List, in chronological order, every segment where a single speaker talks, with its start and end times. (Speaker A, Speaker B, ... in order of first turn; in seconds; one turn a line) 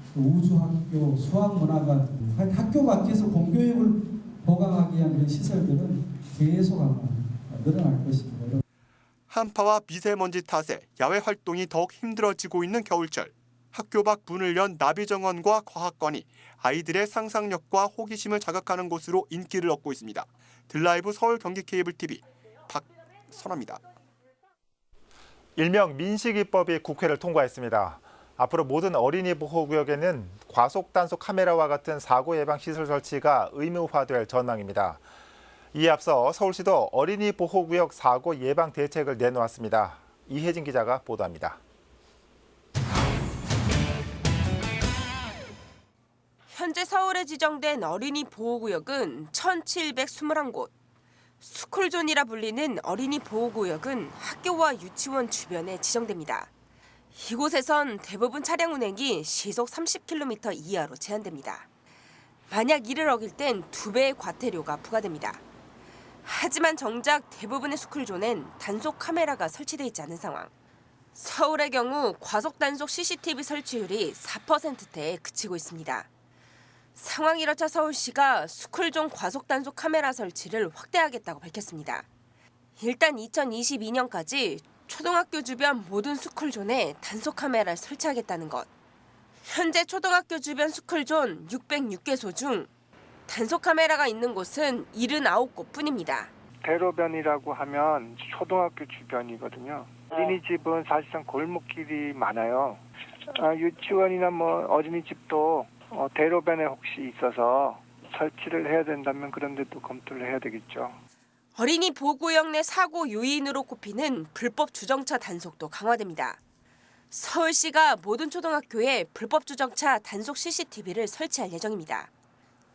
Speaker A: 0.1-8.6
Speaker B: 9.3-23.8
Speaker C: 25.6-35.0
Speaker C: 35.7-41.6
Speaker D: 46.5-50.7
Speaker D: 51.4-56.5
Speaker D: 57.1-61.7
Speaker D: 62.5-65.4
Speaker D: 66.2-70.5
Speaker D: 71.1-76.1
Speaker D: 77.0-82.1
Speaker D: 82.8-88.7
Speaker D: 89.5-92.7
Speaker D: 93.3-96.3
Speaker E: 96.6-111.0
Speaker D: 111.5-116.4
Speaker D: 117.1-122.1